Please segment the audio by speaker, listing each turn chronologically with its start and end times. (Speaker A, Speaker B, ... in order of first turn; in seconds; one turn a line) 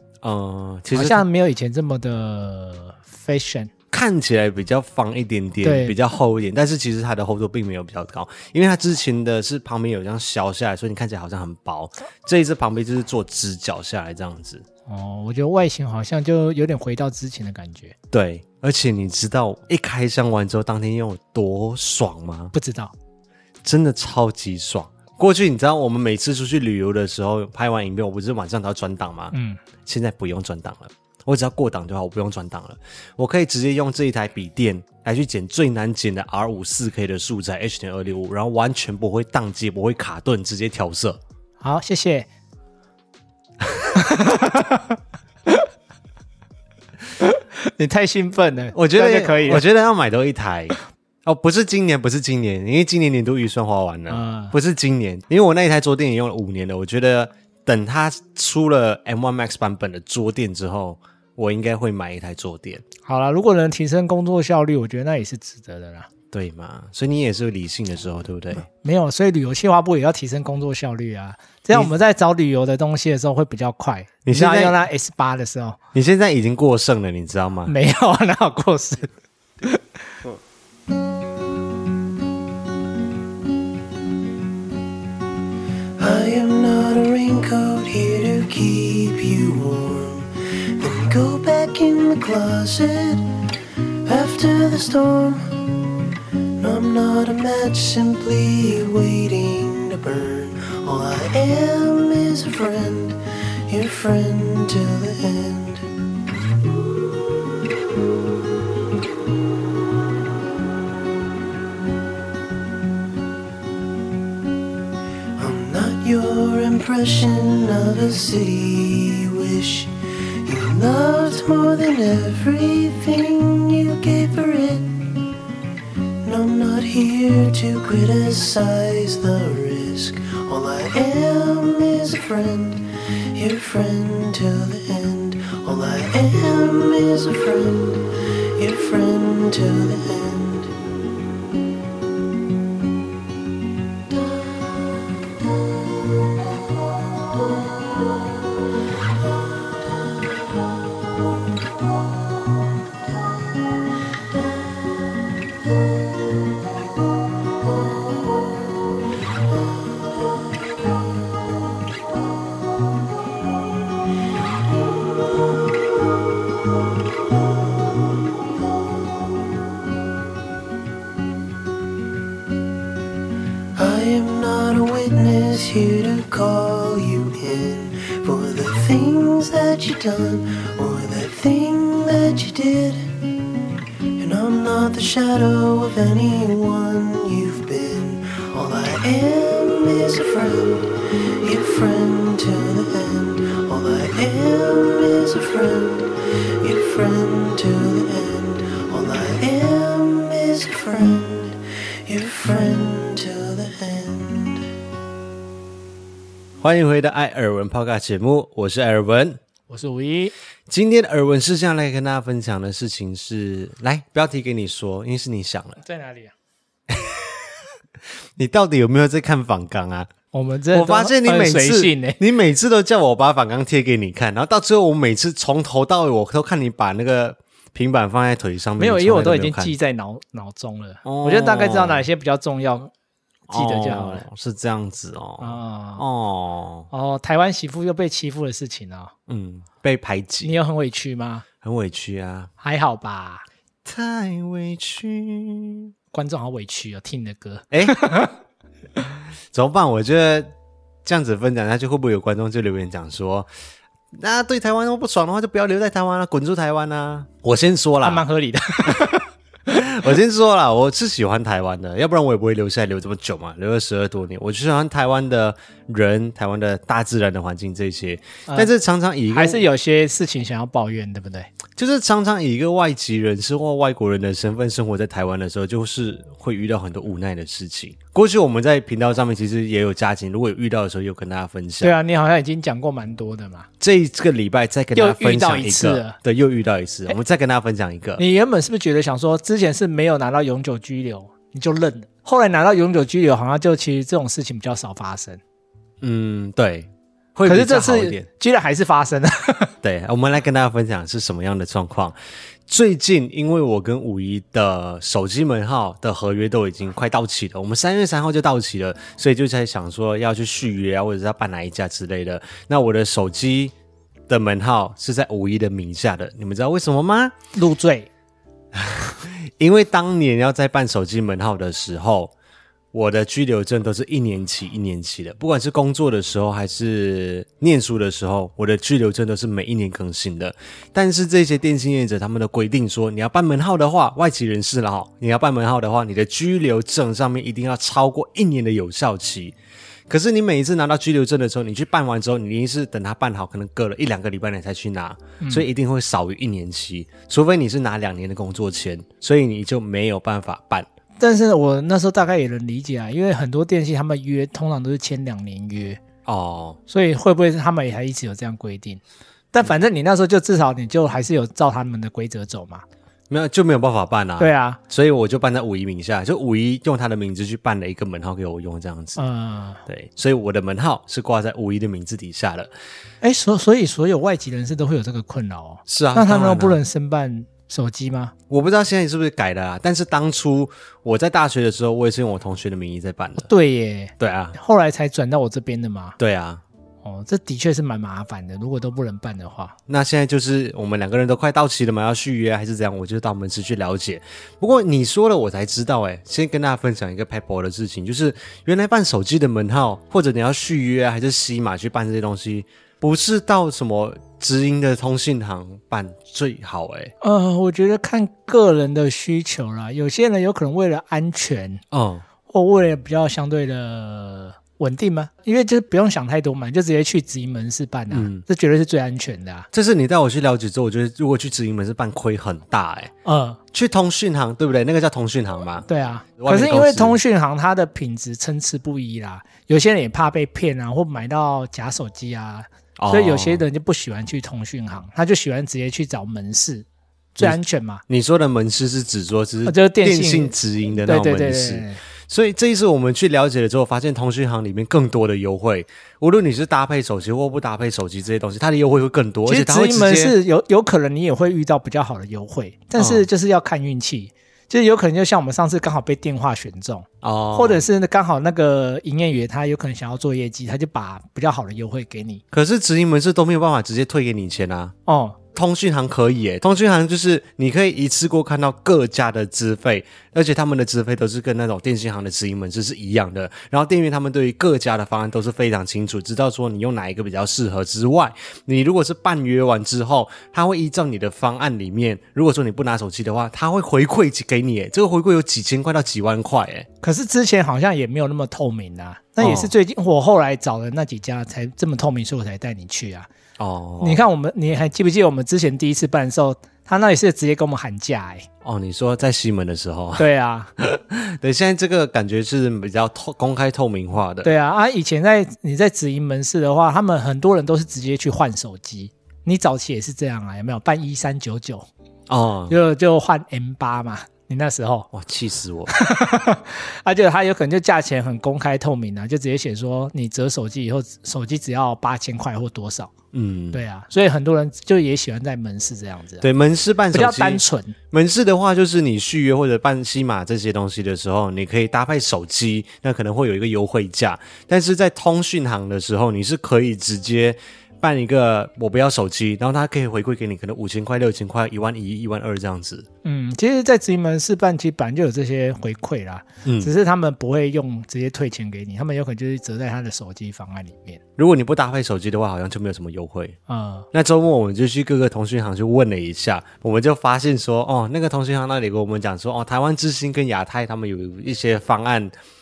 Speaker A: 0.2-1.2
Speaker B: 0.9-3.7
Speaker A: 3.9-14.6
Speaker B: 5.6-6.0
Speaker B: 14.9-17.9
Speaker A: 18.1-22.5
Speaker B: 22.5-22.9
Speaker A: 23.6-41.2
Speaker B: 29.3-29.6
Speaker B: 41.6-42.3
Speaker B: 43.9-45.6
Speaker B: 47.2-49.6
Speaker A: 48.7-62.8
Speaker B: 54.1-54.5
Speaker B: 63.0-66.1
Speaker A: 66.3-68.7
Speaker B: 68.7-75.8
Speaker A: 74.2-74.8
Speaker A: 75.9-77.7
Speaker B: 77.7-79.1
Speaker C: 86.0-93.3
Speaker C: 94.0-95.7
Speaker C: 96.6-105.8
Speaker C: 115.3-125.2
Speaker C: 126.2-140.7
Speaker C: 173.7-183.2
Speaker C: 184.2-204.7
Speaker A: 206.6-209.4
Speaker B: 209.7-210.3
Speaker A: 210.7-215.8
Speaker B: 215.8-216.3
Speaker A: 216.9-217.2
Speaker A: 218.4-220.1
Speaker B: 220.3-222.2
Speaker A: 220.7-229.7
Speaker B: 228.8-232.9
Speaker A: 231.0-232.1
Speaker A: 233.5-236.9
Speaker B: 233.5-234.2
Speaker B: 235.4-236.0
Speaker B: 236.9-239.1
Speaker A: 239.3-240.5
Speaker B: 240.4-241.4
Speaker A: 241.6-242.5
Speaker B: 242.6-243.4
Speaker A: 243.8-245.9
Speaker B: 246.1-248.3
Speaker A: 247.7-248.0
Speaker A: 249.5-250.5
Speaker A: 251.0-253.5
Speaker A: 254.1-258.2
Speaker B: 258.0-259.3
Speaker A: 259.7-269.6
Speaker B: 269.3-271.5
Speaker A: 271.8-281.9
Speaker B: 281.8-283.7
Speaker A: 283.8-288.2
Speaker B: 284.9-286.1
Speaker B: 288.2-295.4
Speaker A: 296.0-298.3
Speaker B: 297.4-299.7
Speaker A: 299.8-302.1
Speaker A: 302.7-313.7
Speaker A: 314.3-317.4
Speaker B: 317.5-318.1
Speaker A: 318.7-322.3
Speaker A: 322.9-339.5
Speaker A: 340.1-350.9
Speaker B: 345.4-345.7
Speaker B: 351.2-356.0
Speaker A: 356.2-356.8
Speaker B: 356.9-359.0
Speaker B: 359.5-362.8
Speaker A: 363.3-369.2
Speaker B: 364.4-364.8
Speaker B: 369.2-369.8
Speaker A: 369.9-372.7
Speaker B: 373.2-378.3
Speaker A: 375.9-376.8
Speaker A: 378.5-383.5
Speaker B: 383.4-386.1
Speaker A: 384.2-384.6
Speaker A: 386.2-386.6
Speaker B: 387.0-389.7
Speaker A: 389.9-407.1
Speaker B: 407.2-411.8
Speaker A: 411.9-412.2
Speaker B: 412.5-419.7
Speaker A: 418.1-418.4
Speaker A: 419.7-423.1
Speaker B: 423.2-423.6
Speaker A: 423.7-427.2
Speaker B: 425.9-438.0
Speaker A: 433.0-433.6
Speaker A: 437.4-450.4
Speaker B: 439.6-442.0
Speaker B: 449.4-462.4
Speaker A: 453.0-453.3
Speaker A: 457.2-457.8
Speaker A: 462.5-464.9
Speaker B: 465.1-465.4
Speaker A: 465.5-486.9
Speaker B: 487.0-493.3
Speaker A: 489.4-489.7
Speaker A: 493.6-494.2
Speaker B: 494.0-498.5
Speaker A: 498.6-500.3
Speaker B: 500.2-500.7
Speaker A: 500.8-504.5
Speaker B: 504.4-511.9
Speaker A: 512.3-512.8
Speaker B: 512.7-515.1
Speaker A: 515.1-515.9
Speaker B: 515.9-523.1
Speaker A: 523.3-523.8
Speaker B: 523.7-526.4
Speaker A: 526.4-543.1
Speaker B: 527.1-528.0
Speaker B: 543.2-551.2
Speaker A: 546.6-546.9
Speaker A: 551.4-553.6
Speaker B: 553.7-554.1
Speaker A: 554.1-562.3